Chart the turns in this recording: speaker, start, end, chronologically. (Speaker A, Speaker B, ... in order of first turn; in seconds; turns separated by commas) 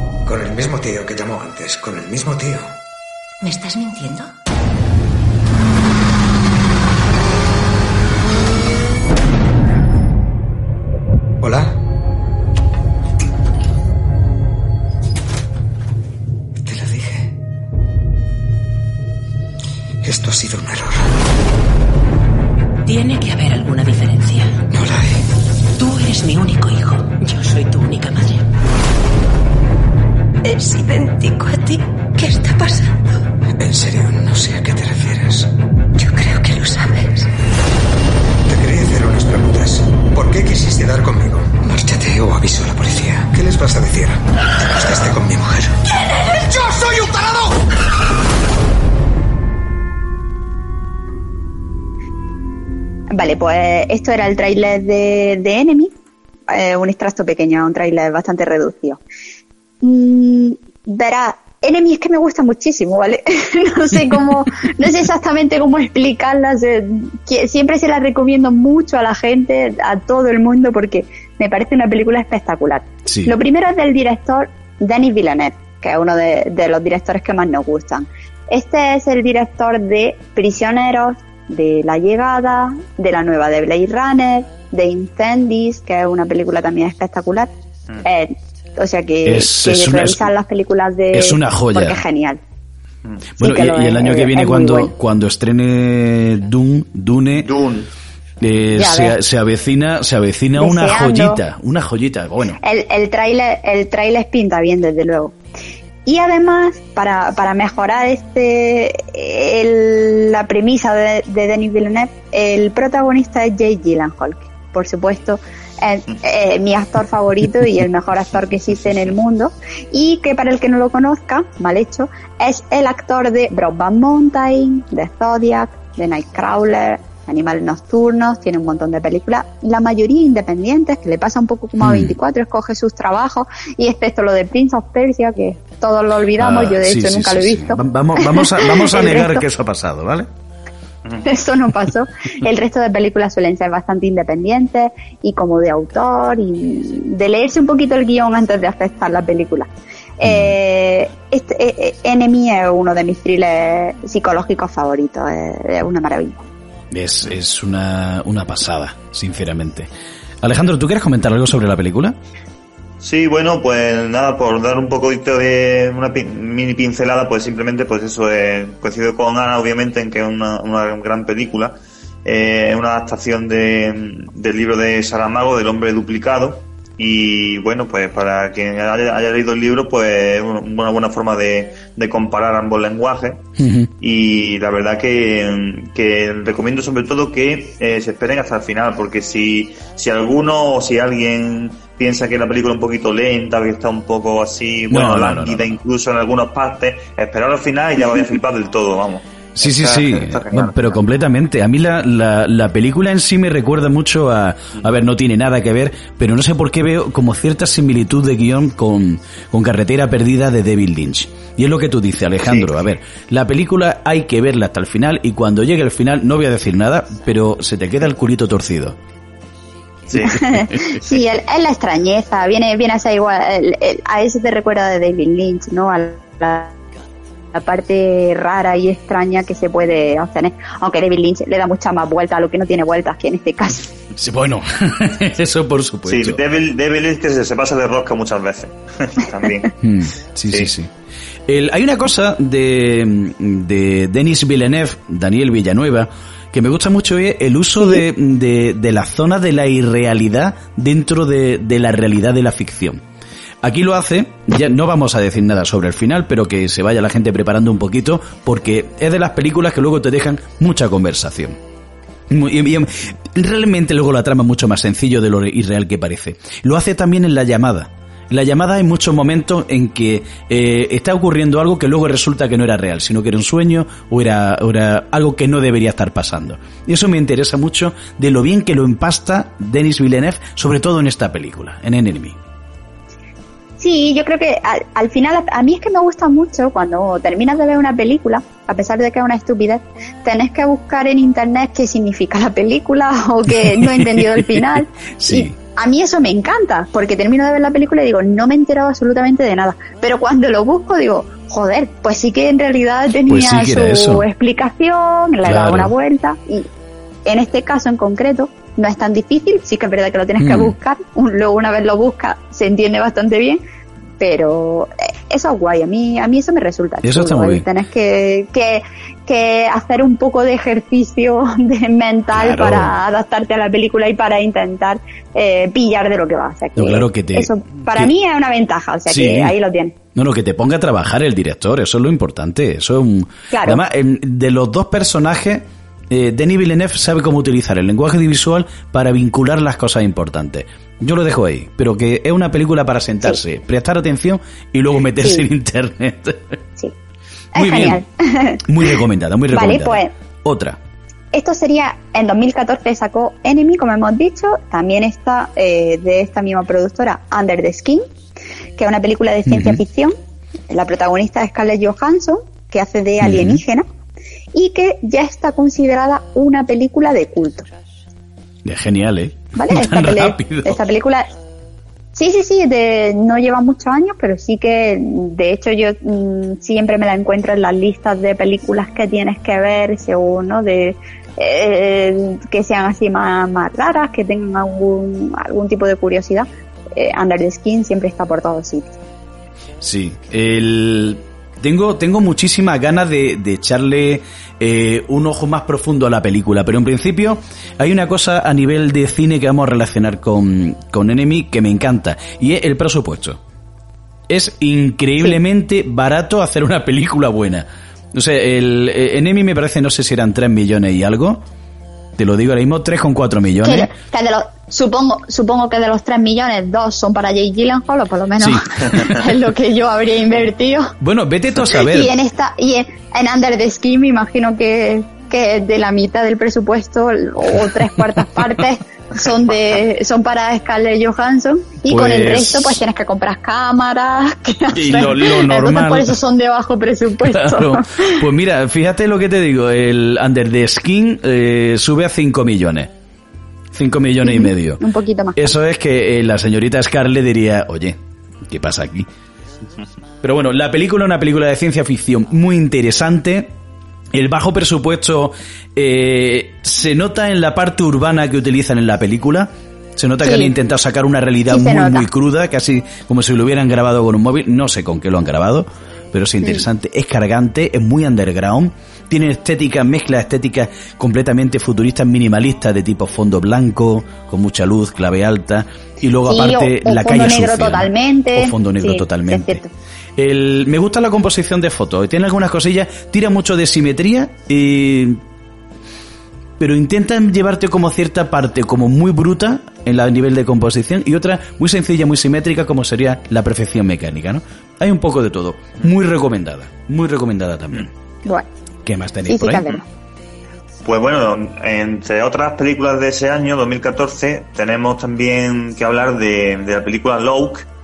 Speaker A: 0.2-2.7, Speaker B: 3.4-4.3, Speaker A: 11.4-11.8, Speaker A: 16.6-17.3, Speaker A: 20.0-21.1, Speaker B: 22.9-24.6, Speaker A: 24.7-25.2, Speaker B: 25.8-28.4, Speaker B: 30.4-33.0, Speaker A: 33.6-35.5, Speaker B: 36.0-37.3, Speaker A: 38.5-45.8, Speaker A: 46.3-47.6, Speaker C: 53.1-55.9, Speaker C: 56.5-59.0, Speaker C: 59.8-87.5, Speaker D: 73.1-73.3, Speaker C: 88.0-92.4, Speaker D: 89.2-90.3, Speaker D: 91.1-92.0, Speaker D: 93.4-97.5, Speaker C: 93.4-94.9, Speaker E: 97.4-97.9, Speaker D: 98.4-102.6, Speaker C: 98.8-99.2, Speaker C: 100.6-101.4, Speaker C: 102.6-105.3, Speaker C: 106.1-139.4, Speaker D: 131.8-132.2, Speaker D: 136.4-140.3, Speaker C: 141.2-149.7, Speaker C: 150.2-156.4, Speaker D: 150.2-150.6, Speaker D: 156.9-159.9, Speaker D: 160.4-162.2, Speaker E: 163.0-183.4, Speaker D: 183.6-183.9, Speaker E: 184.0-201.0, Speaker D: 194.9-195.8, Speaker D: 199.6-219.0, Speaker D: 220.1-221.2, Speaker E: 220.1-220.4, Speaker C: 220.1-226.7, Speaker C: 227.5-233.9, Speaker D: 234.2-236.4, Speaker E: 236.1-239.7, Speaker D: 239.8-240.9, Speaker D: 241.5-253.0, Speaker D: 253.6-261.6, Speaker D: 262.3-282.4, Speaker C: 283.8-306.7, Speaker D: 293.5-295.5, Speaker D: 303.3-304.3, Speaker D: 305.4-305.9, Speaker C: 307.3-313.6, Speaker D: 310.4-310.8, Speaker C: 314.2-329.9, Speaker D: 317.0-317.7, Speaker D: 322.3-323.0, Speaker D: 326.8-328.1, Speaker D: 329.1-329.6, Speaker D: 330.1-346.6, Speaker C: 333.5-333.8, Speaker C: 345.2-345.4, Speaker D: 347.6-348.0, Speaker C: 347.6-348.6, Speaker D: 348.6-350.8, Speaker C: 349.5-350.1, Speaker C: 351.3-358.1, Speaker C: 358.8-360.1, Speaker D: 359.5-359.8, Speaker C: 360.7-363.9, Speaker D: 363.2-363.6, Speaker C: 364.5-367.7, Speaker D: 368.6-370.8, Speaker C: 369.6-371.3, Speaker C: 372.1-389.0, Speaker D: 389.8-403.4, Speaker D: 404.3-411.4, Speaker D: 412.2-413.9, Speaker C: 413.6-420.9, Speaker D: 418.4-419.3, Speaker D: 421.0-422.1, Speaker C: 421.7-438.2, Speaker D: 427.6-428.2, Speaker D: 431.9-432.8, Speaker D: 434.7-436.2, Speaker D: 437.2-442.9, Speaker D: 443.7-444.8, Speaker C: 444.2-445.5, Speaker D: 445.4-449.1, Speaker D: 450.2-453.5, Speaker D: 454.1-479.6, Speaker C: 460.2-460.5, Speaker C: 461.5-462.1, Speaker C: 476.2-479.7, Speaker D: 480.2-485.2, Speaker D: 486.6-497.9, Speaker D: 498.8-499.8, Speaker C: 499.3-499.8, Speaker E: 500.8-507.7